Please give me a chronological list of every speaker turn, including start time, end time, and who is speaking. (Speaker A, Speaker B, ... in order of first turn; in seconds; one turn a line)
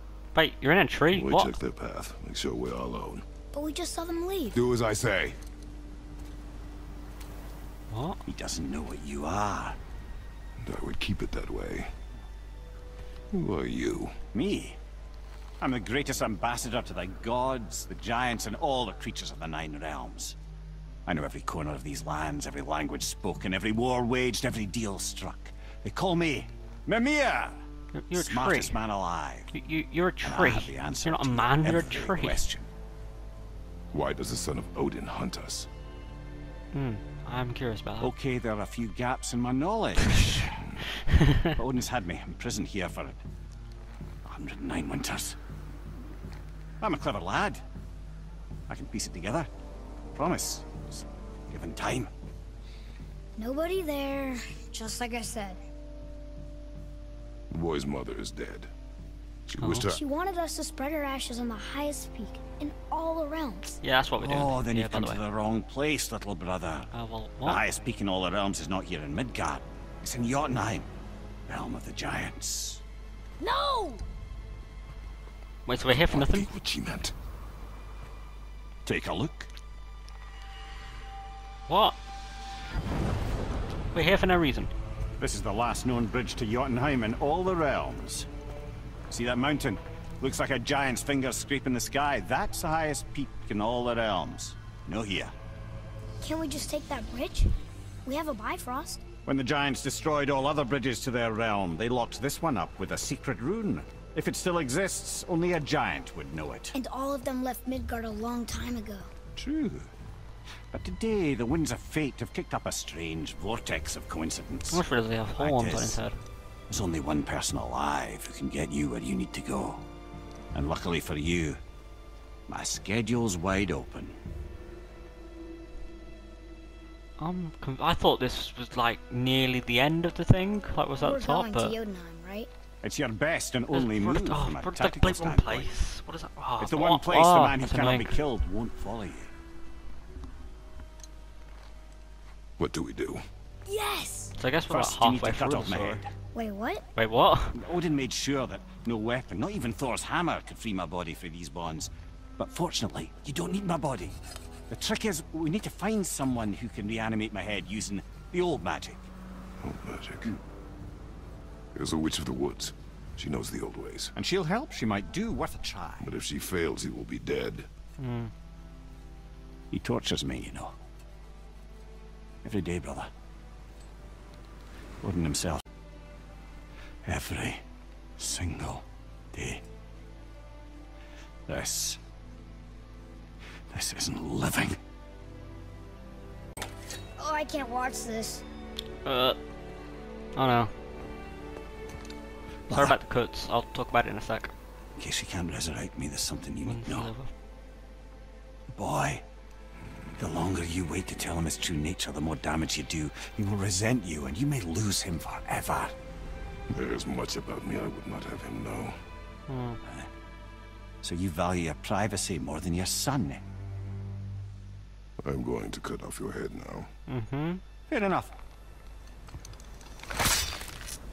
Speaker A: 0.3-1.5
Speaker B: 1.1-3.2
Speaker C: 3.5-4.6
Speaker B: 4.5-5.4
Speaker A: 7.9-8.2
Speaker D: 8.2-9.8
Speaker B: 10.6-11.9
Speaker B: 13.3-14.2
Speaker D: 14.3-14.8
Speaker D: 15.6-20.4
Speaker D: 21.1-27.6
Speaker A: 27.9-28.8
Speaker D: 28.1-29.5
Speaker A: 29.5-32.4
Speaker D: 30.2-32.7
Speaker B: 33.9-35.7
Speaker A: 36.7-38.1
Speaker D: 38.0-40.8
Speaker A: 41.0-41.5
Speaker D: 41.5-43.2
Speaker D: 44.2-45.4
Speaker D: 46.8-47.6
Speaker D: 48.7-49.5
Speaker D: 50.1-52.1
Speaker C: 53.4-55.6
Speaker B: 57.5-58.7
Speaker B: 59.5-60.0
Speaker A: 59.6-59.9
Speaker C: 59.9-63.8
Speaker A: 63.8-65.2
Speaker D: 64.2-66.9
Speaker A: 66.9-67.6
Speaker D: 67.4-70.9
Speaker D: 71.5-72.8
Speaker C: 73.4-74.0
Speaker A: 75.7-76.5
Speaker B: 75.8-77.1
Speaker D: 78.8-79.5
Speaker A: 81.7-82.0
Speaker A: 83.9-84.7
Speaker D: 85.2-88.3
Speaker D: 89.1-95.3
Speaker C: 96.2-97.5
Speaker C: 98.0-99.0
Speaker D: 99.2-106.7
Speaker C: 106.7-109.1
Speaker D: 109.3-109.9
Speaker D: 110.7-116.0
Speaker A: 114.7-116.2
Speaker D: 116.7-119.8
Speaker D: 120.5-121.6
Speaker D: 122.5-124.2
Speaker A: 127.2-131.8
Speaker C: 131.0-132.5
Speaker D: 132.8-135.7
Speaker A: 133.7-138.2
Speaker D: 136.6-139.3
Speaker B: 142.6-143.2
Speaker C: 143.7-144.3
Speaker A: 144.4-146.0
Speaker D: 144.7-146.1
Speaker C: 146.3-146.8
Speaker A: 146.9-147.6
Speaker D: 147.5-159.1
Speaker B: 159.6-160.3
Speaker B: 161.7-164.1
Speaker D: 164.1-166.1
Speaker B: 166.0-167.7
Speaker A: 168.0-168.3
Speaker D: 169.7-170.7
Speaker D: 172.4-173.1
Speaker D: 175.0-175.6
Speaker D: 177.0-177.6
Speaker D: 178.2-179.6
Speaker D: 181.4-182.0
Speaker D: 183.7-184.8
Speaker C: 187.2-188.4
Speaker A: 189.0-189.4
Speaker A: 190.3-190.7
Speaker D: 192.7-193.0
Speaker A: 192.7-194.5
Speaker D: 194.9-197.1
Speaker A: 196.6-197.3
Speaker D: 198.7-199.2
Speaker D: 200.2-205.9
Speaker B: 206.7-208.9
Speaker A: 209.5-209.8
Speaker D: 209.8-210.1
Speaker D: 211.0-213.4
Speaker B: 215.2-216.9
Speaker A: 217.1-217.6
Speaker D: 217.9-218.3